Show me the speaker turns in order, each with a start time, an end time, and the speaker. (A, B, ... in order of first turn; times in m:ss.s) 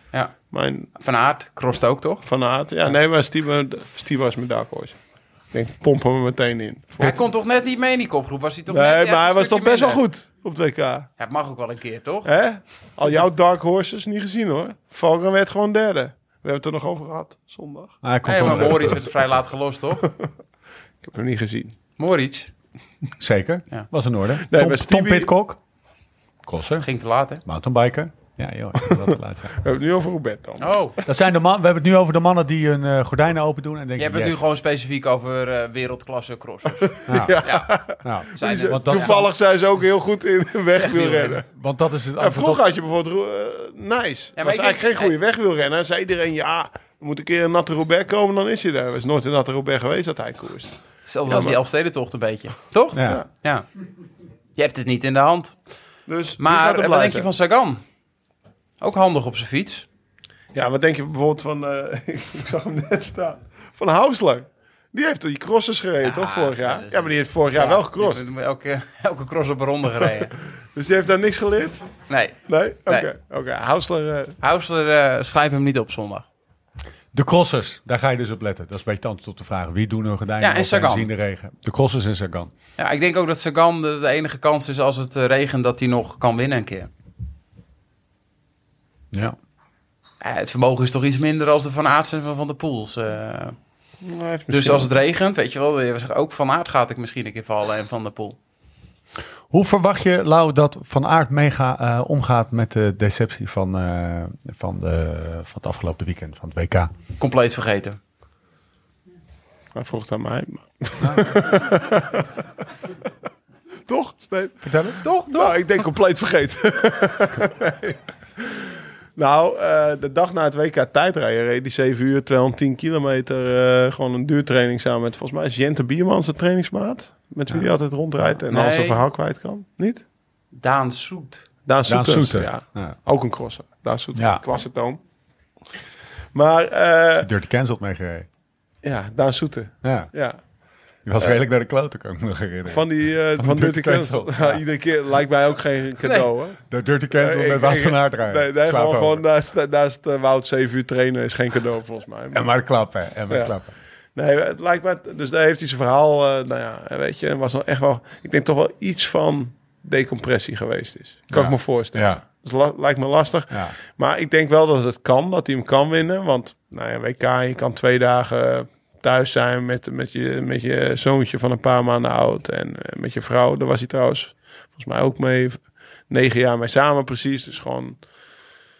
0:00.5-0:00.9 A
0:00.9-0:02.2 B
0:02.2-0:05.0 A
0:05.5-0:07.2 A
0:07.0-0:10.0 B
0:08.7-0:11.1 A
0:11.2-0:12.3 B
0:12.2-0:18.5 A
0:18.0-0:19.2 C
0:18.2-0:20.0 B
0:20.0-0:20.3 A
0:21.0-0:21.7 A
0:22.0-0:22.5 B
0:23.2-0:25.6 C
0:24.4-0:25.3 A
0:26.4-0:26.9 C
0:26.8-0:27.4 B
0:27.4-0:29.5 C
0:29.6-0:30.8 A
0:30.6-0:31.0 B
0:31.0-0:34.4 C
0:34.0-0:39.3 B
0:36.8-0:41.4 A
0:37.1-0:37.4 C
0:38.0-0:39.2 C
0:40.8-0:41.4 B
0:41.4-0:42.6 C
0:42.2-0:51.6 A
0:44.4-0:45.1 B
0:51.0-0:53.6 B
0:52.9-0:53.2 C
0:54.6-0:55.5 B
0:56.1-0:57.3 A
0:56.4-0:57.8 B
0:58.8-0:59.8 B
1:00.5-1:08.2 A
1:06.0-1:10.3 B
1:10.7-1:11.9 A
1:12.1-1:13.1 B
1:12.5-1:14.4 A
1:14.4-1:16.2 B
1:17.1-1:22.5 C
1:20.4-1:21.1 B
1:22.8-1:26.9 B
1:30.2-1:33.6 B
1:34.0-1:34.9 A
1:34.5-1:38.4 B
1:39.5-1:46.9 C
1:47.2-1:48.0 B
1:49.7-1:52.3 A
1:53.8-1:54.7 A
1:54.6-1:55.0 C
1:55.0-1:55.6 B
1:55.3-2:10.0 A
2:08.3-2:09.0 B
2:10.6-2:11.5 B
2:11.6-2:15.0 A
2:11.8-2:13.0 C
2:14.1-2:14.4 C
2:16.3-2:17.3 A
2:17.2-2:18.3 C
2:18.8-2:20.4 A
2:19.8-2:20.1 C
2:21.0-2:24.6 C
2:22.7-2:26.6 A
2:26.0-2:26.3 B
2:26.7-2:29.2 C
2:27.2-2:32.5 A
2:32.3-2:33.7 C
2:33.3-2:33.5 A
2:34.1-2:58.0 A
2:41.3-2:42.2 C
2:43.5-2:43.8 C